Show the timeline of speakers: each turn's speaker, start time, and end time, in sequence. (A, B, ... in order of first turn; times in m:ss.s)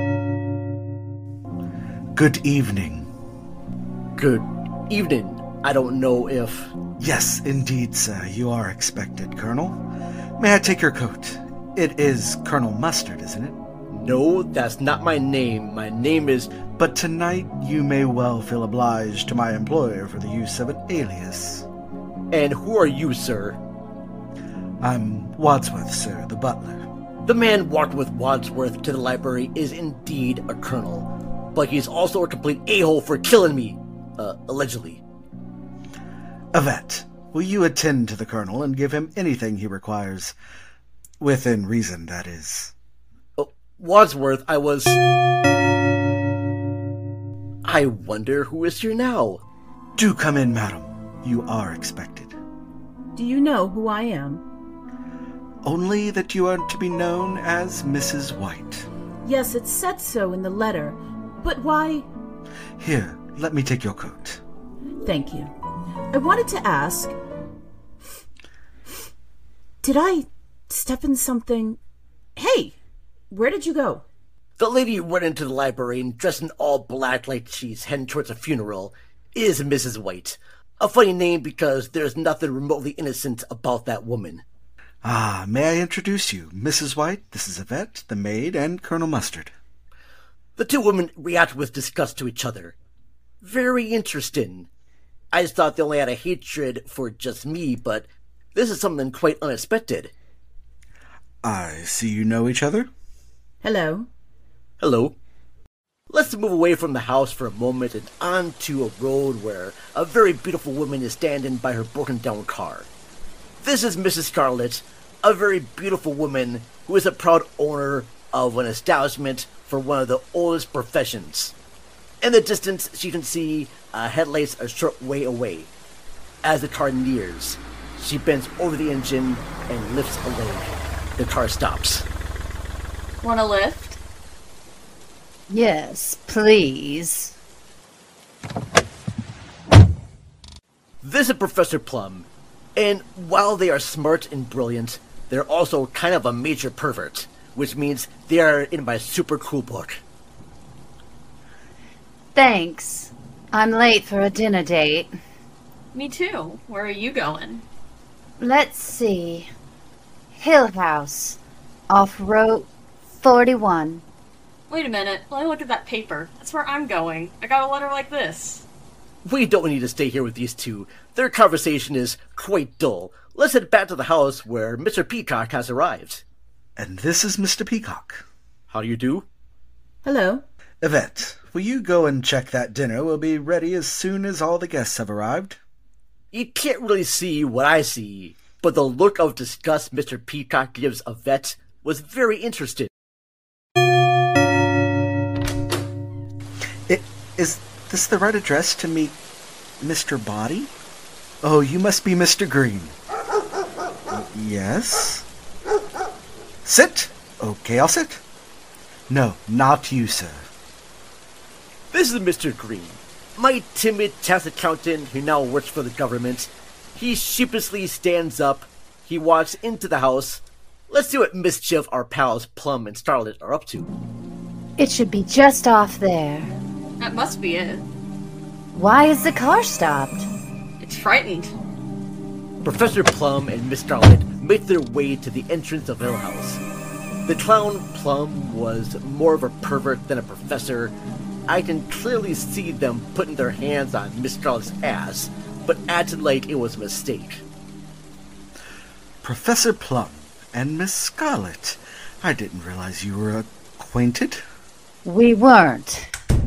0:02.1-0:03.1 A
0:04.2-0:06.7 B
0:07.0-0:09.8 A
0:10.4-0:13.6 A
0:13.9-0:16.5 B
0:16.8-0:21.7 A
0:22.3-0:23.6 B
0:24.8-0:26.8 A
0:27.2-0:35.0 B
0:36.5-0:40.4 A
0:41.2-0:42.7 A
0:43.4-0:45.0 B
0:47.6-0:49.4 B
0:50.0-0:52.4 A
0:53.1-0:54.4 C
0:55.6-0:58.9 A
0:59.2-1:02.1 C
1:02.8-1:04.4 A
1:05.0-1:05.5 C
1:06.1-1:07.1 C
1:09.8-1:11.8 C
1:12.4-1:12.8 C
1:13.3-1:14.0 C
1:14.6-1:24.4 B
1:25.0-1:29.5 A
1:30.6-1:32.8 B
1:33.4-1:34.7 B
1:35.3-1:40.1 B
1:41.4-1:42.9 A
1:43.6-1:44.1 C
1:44.8-1:45.2 B
1:46.1-1:52.9 B
1:53.6-2:01.5 B
2:02.2-2:05.7 B
2:06.4-2:12.0 B
2:13.2-2:14.0 D
2:15.5-2:17.3 E
2:21.0-2:30.0 B
2:32.3-2:35.1 E
2:35.9-2:37.6 D
2:38.4-2:39.5 E
2:40.3-2:41.4 E
2:41.9-2:42.7 E
2:43.2-2:44.0 E
2:44.7-2:48.6 D
2:49.2-2:56.2 B
2:56.8-2:58.2 A
2:58.7-2:59.3 B
3:00.0-3:00.4 C
3:00.8-3:05.6 A
3:06.3-3:12.9 B
3:16.9-3:19.2 A
3:19.8-3:20.7 A
3:21.4-3:23.0 A
3:24.1-3:25.2 A
3:26.6-3:28.2 A
3:29.1-3:30.5 A
3:31.9-3:43.9 B
3:44.8-3:46.5 E
3:47.0-3:47.8 D
3:48.7-3:50.3 E
3:50.8-3:51.5 D
3:52.6-3:56.6 B
3:57.2-4:00.9 B
4:01.5-4:07.4 B
4:09.2-4:14.4 A
4:15.0-4:16.1 E